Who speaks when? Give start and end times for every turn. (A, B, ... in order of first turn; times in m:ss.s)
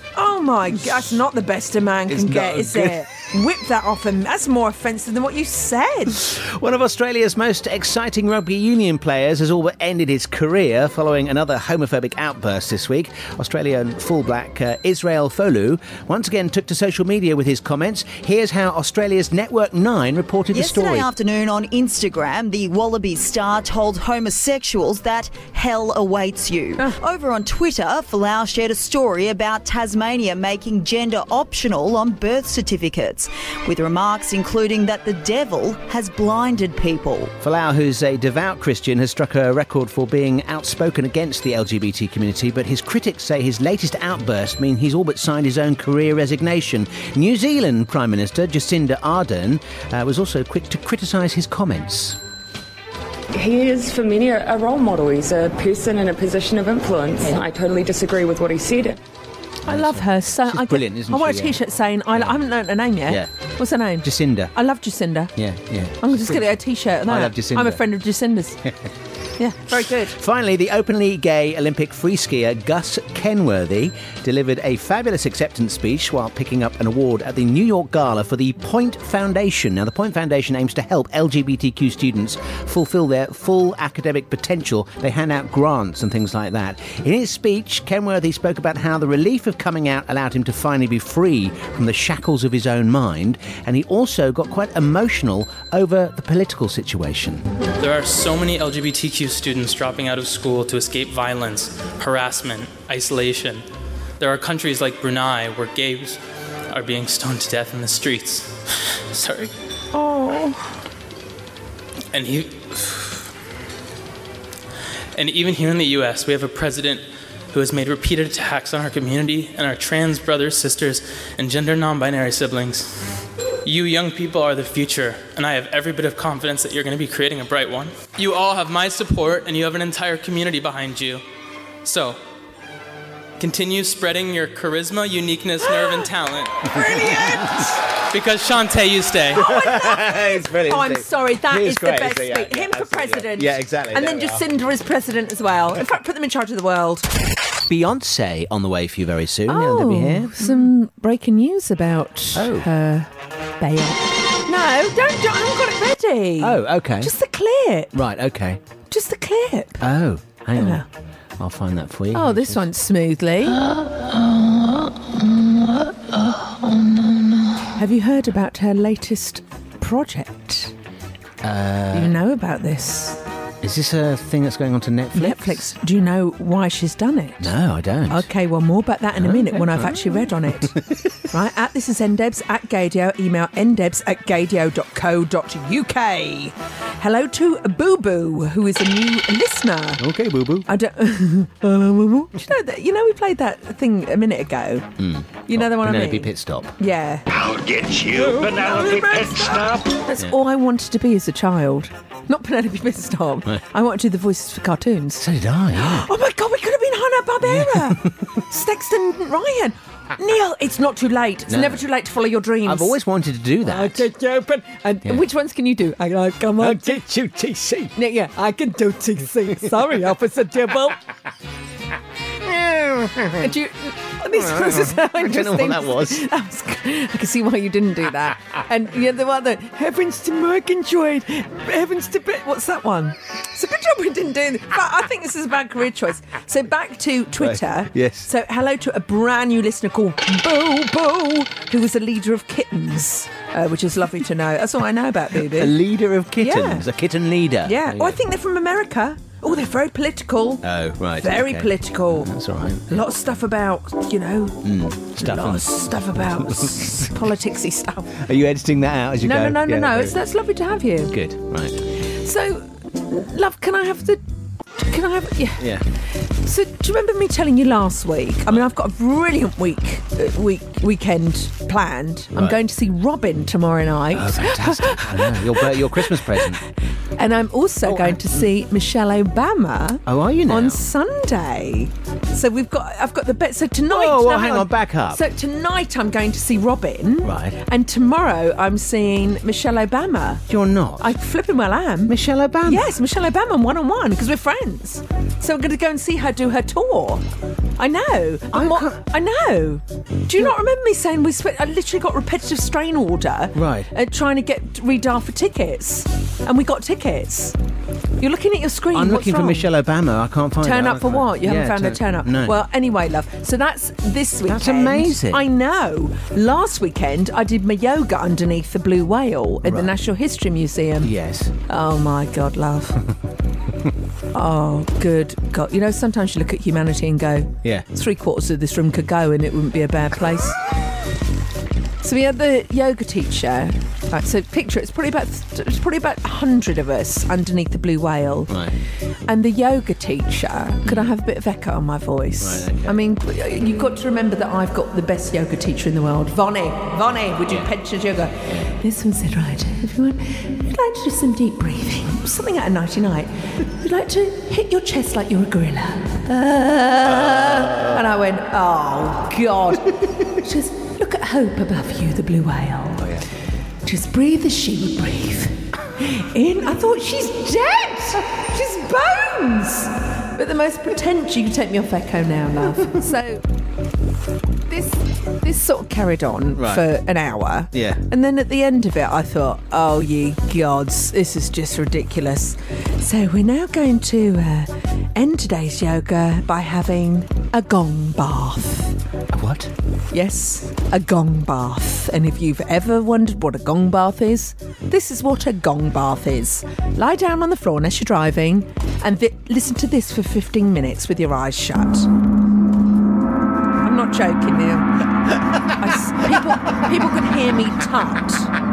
0:00.1-0:06.2 A
0:02.1-0:03.0 B
0:06.2-0:21.1 B
0:20.5-0:37.3 C
0:37.4-0:52.2 B
0:53.3-0:59.0 D
0:59.6-1:01.6 B
0:59.7-1:05.3 A
1:04.0-1:04.5 B
1:05.4-1:07.8 B
1:06.0-1:08.6 A
1:09.4-1:10.2 A
1:09.8-1:37.4 B
1:37.8-1:43.6 E
1:44.2-1:46.2 E
1:46.7-1:48.5 E
1:49.1-1:49.5 E
1:52.1-1:53.2 E
1:55.2-2:02.9 E
2:03.6-2:11.2 E
2:11.8-2:12.2 E
2:13.4-2:16.9 E
2:16.7-2:17.5 A
2:16.9-2:17.5 B
2:18.1-2:19.5 E
2:19.3-2:24.4 B
2:19.4-2:27.1 A
2:27.7-2:30.6 B
2:29.5-2:37.9 A
2:32.3-2:32.7 B
2:36.4-2:37.1 B
2:37.9-2:38.6 B
2:38.9-2:39.8 A
2:39.8-2:40.8 B
2:40.6-2:40.8 A
2:41.4-2:42.7 B
2:42.1-2:43.6 A
2:43.6-2:44.9 B
2:46.4-2:47.0 B
2:47.8-2:50.7 A
2:51.4-2:52.1 B
2:51.9-2:53.2 A
2:53.6-2:55.7 B
2:55.1-2:57.5 A
2:57.4-2:58.3 B
2:58.1-3:00.7 A
2:59.2-3:00.9 B
3:01.3-3:10.0 A
3:10.0-3:10.7 B
3:10.7-3:14.9 A
3:15.0-3:16.7 B
3:15.5-3:17.2 A
3:17.3-3:19.9 F
3:18.1-3:25.3 A
3:25.2-3:26.1 B
3:25.8-3:33.0 A
3:27.4-3:28.1 B
3:31.5-3:31.8 B
3:32.6-3:34.0 B
3:33.6-3:37.0 A
3:36.6-3:37.9 B
3:37.9-3:41.0 A
3:42.4-3:43.5 B
3:43.4-4:05.8 A
3:44.3-3:46.2 B
3:57.4-3:58.3 B
4:05.4-4:08.2 B
4:06.4-4:06.8 A
4:07.6-4:10.6 A
4:10.6-4:13.0 B
4:11.2-4:12.3 A
4:12.9-4:14.6 A
4:14.6-4:15.7 B
4:15.2-4:18.2 A
4:16.4-4:17.1 B
4:18.2-4:20.1 B
4:19.2-4:21.1 A
4:21.1-4:21.8 B
4:22.0-4:24.2 A
4:24.8-4:25.7 A
4:26.4-4:36.6 A
4:34.1-4:36.6 B
4:37.2-4:50.4 A
4:37.8-4:38.4 B
4:40.0-4:40.8 B
4:43.9-4:45.2 B
4:47.2-4:47.6 B
4:50.5-4:51.1 B
4:51.0-4:57.2 A
4:52.1-4:52.9 B
4:57.8-5:07.6 A
4:58.5-4:59.0 B
5:03.5-5:03.9 B
5:08.2-5:09.7 A
5:08.9-5:12.6 B
5:10.6-5:21.1 A
5:14.4-5:15.4 B
5:19.6-5:19.9 B
5:21.0-5:21.5 B
5:21.7-5:23.0 A
5:24.3-5:30.6 A
5:32.0-5:38.5 A
5:38.5-5:38.7 B
5:39.3-6:03.2 A
5:40.8-5:41.1 B
5:42.4-5:43.0 B
5:57.1-5:58.0 B
6:03.8-6:13.4 A
6:14.7-6:29.0 A
6:16.6-6:16.8 B
6:17.7-6:18.0 B
6:29.3-6:29.7 B
6:30.1-6:42.1 A
6:43.8-6:45.0 A
6:45.6-6:48.5 A